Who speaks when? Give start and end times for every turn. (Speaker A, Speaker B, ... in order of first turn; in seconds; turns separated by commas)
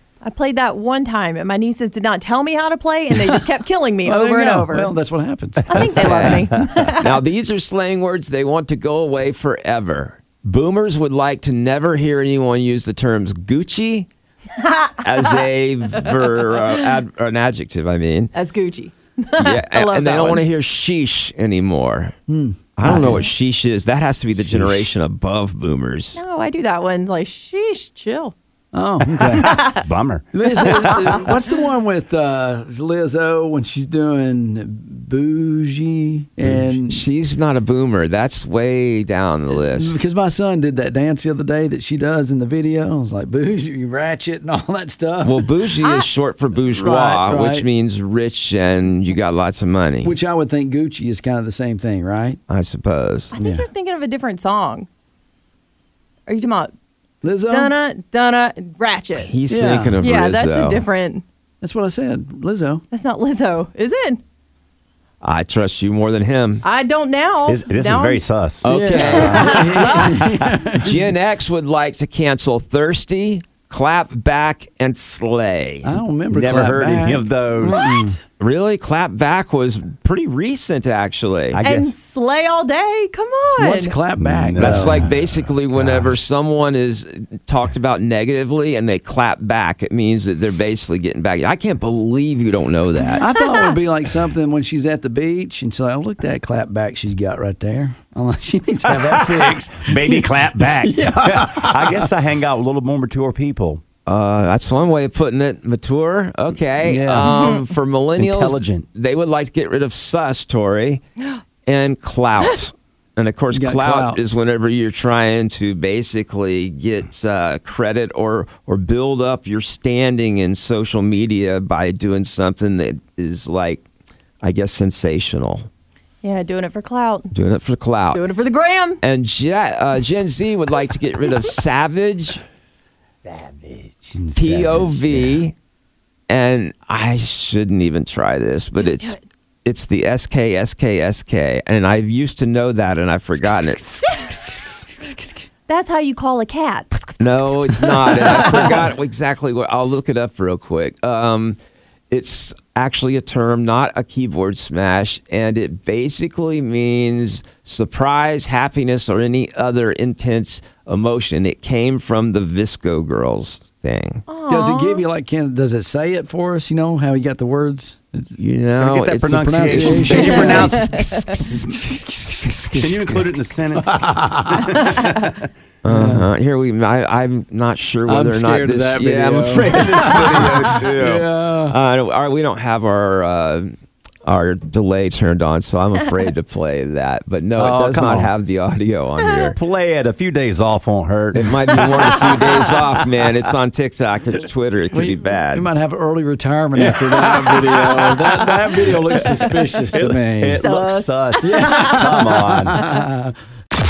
Speaker A: 0.2-4.9, Speaker B: 4.0-6.3, Speaker A: 5.7-7.1, Speaker C: 5.7-6.9, Speaker D: 5.9-14.1, Speaker A: 14.6-15.0, Speaker D: 15.0-18.3, Speaker A: 18.3-20.4, Speaker D: 19.4-22.2, Speaker B: 22.3-23.2, Speaker D: 22.8-26.2, Speaker C: 22.8-23.2, Speaker C: 24.5-24.8, Speaker A: 26.1-28.3, Speaker B: 28.7-29.7, Speaker C: 29.2-31.2, Speaker A: 29.4-29.8, Speaker B: 30.3-37.0, Speaker A: 30.5-31.0, Speaker D: 36.9-40.0, Speaker B: 39.6-45.5, Speaker D: 45.2-50.1, Speaker A: 45.8-46.1, Speaker B: 46.7-47.6, Speaker B: 50.0-52.4, Speaker D: 52.5-53.3, Speaker A: 53.3-54.9, Speaker B: 53.4-53.6, Speaker A: 56.3-56.7, Speaker B: 57.2-57.7, Speaker A: 57.2-59.3, Speaker D: 59.2-60.8, Speaker B: 59.5-60.0, Speaker A: 60.0-61.2, Speaker B: 61.6-62.8, Speaker A: 62.9-64.2, Speaker D: 65.2-66.6, Speaker A: 66.6-68.2, Speaker C: 67.5-68.7, Speaker D: 68.6-70.1, Speaker B: 68.6-71.2, Speaker A: 69.0-70.2, Speaker C: 70.2-70.5, Speaker D: 70.8-75.9, Speaker B: 75.8-78.2, Speaker C: 76.3-77.9, Speaker D: 78.4-81.6, Speaker C: 81.5-81.9, Speaker A: 81.6-83.9, Speaker B: 83.6-85.1, Speaker C: 84.2-86.1, Speaker D: 84.5-93.3, Speaker B: 93.2-102.1, Speaker C: 98.8-103.8, Speaker D: 104.0-111.0, Speaker C: 106.8-107.5, Speaker C: 108.2-108.8, Speaker D: 111.7-123.8, Speaker B: 113.5-114.2, Speaker D: 124.4-125.7, Speaker A: 126.2-127.3, Speaker D: 127.3-128.2, Speaker A: 128.1-129.0, Speaker D: 129.0-132.4, Speaker C: 133.2-134.2, Speaker B: 134.1-135.4, Speaker D: 134.3-135.5, Speaker D: 136.3-144.3, Speaker A: 138.8-139.2, Speaker A: 144.0-148.9, Speaker D: 147.2-151.6, Speaker D: 152.1-164.2, Speaker A: 164.3-165.0, Speaker B: 164.5-168.3, Speaker D: 168.4-170.9, Speaker C: 168.8-171.8, Speaker B: 169.3-174.9, Speaker C: 172.7-175.5, Speaker D: 175.8-183.7, Speaker B: 175.9-176.3, Speaker B: 178.1-181.8, Speaker C: 179.7-180.8, Speaker D: 184.2-189.6, Speaker C: 187.6-188.3, Speaker C: 189.5-193.3, Speaker D: 191.3-195.7, Speaker B: 194.9-200.7, Speaker C: 196.7-202.8, Speaker A: 200.4-202.3, Speaker B: 201.4-203.3